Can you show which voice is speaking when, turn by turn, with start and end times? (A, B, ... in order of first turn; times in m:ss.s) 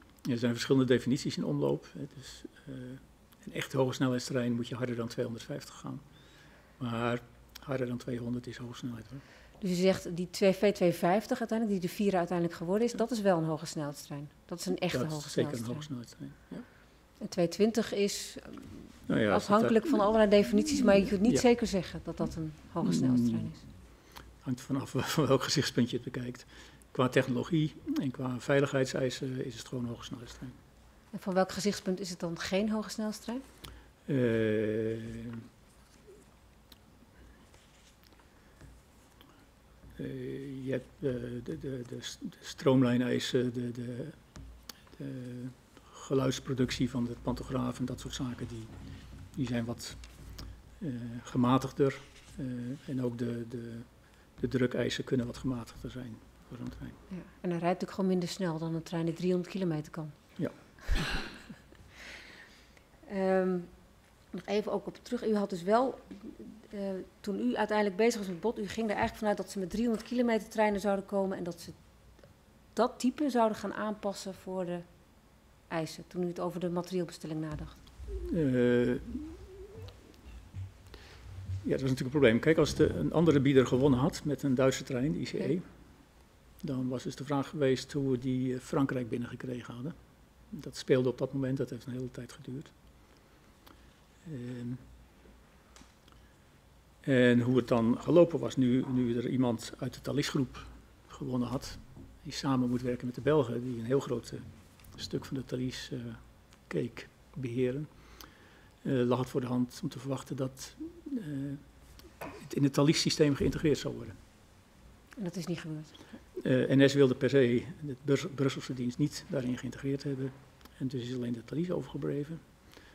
0:00.2-0:06.0 A
0:06.8-0:09.2 A
0:09.6-0:15.9 B
0:14.9-0:16.6 A
0:17.2-0:23.6 B
0:19.1-0:20.0 A
0:22.8-0:23.6 A
0:24.4-0:30.6 A
0:31.1-0:33.4 B
0:34.1-0:35.4 A
0:40.0-0:44.2 A
0:44.9-0:48.7 A
0:49.3-0:50.0 A
0:50.8-0:57.0 A
0:57.1-1:00.1 B
1:03.1-1:03.7 B
1:04.3-1:11.8 B
1:12.7-1:14.8 B
1:15.7-1:17.8 B
1:18.1-1:19.4 A
1:21.6-1:25.6 A
1:26.6-1:30.0 A
1:30.5-1:32.7 A
1:34.2-1:34.8 A
1:37.0-1:47.9 A
1:48.8-1:51.6 A
1:52.2-1:54.2 A
1:55.2-1:56.0 B
1:56.4-2:02.4 A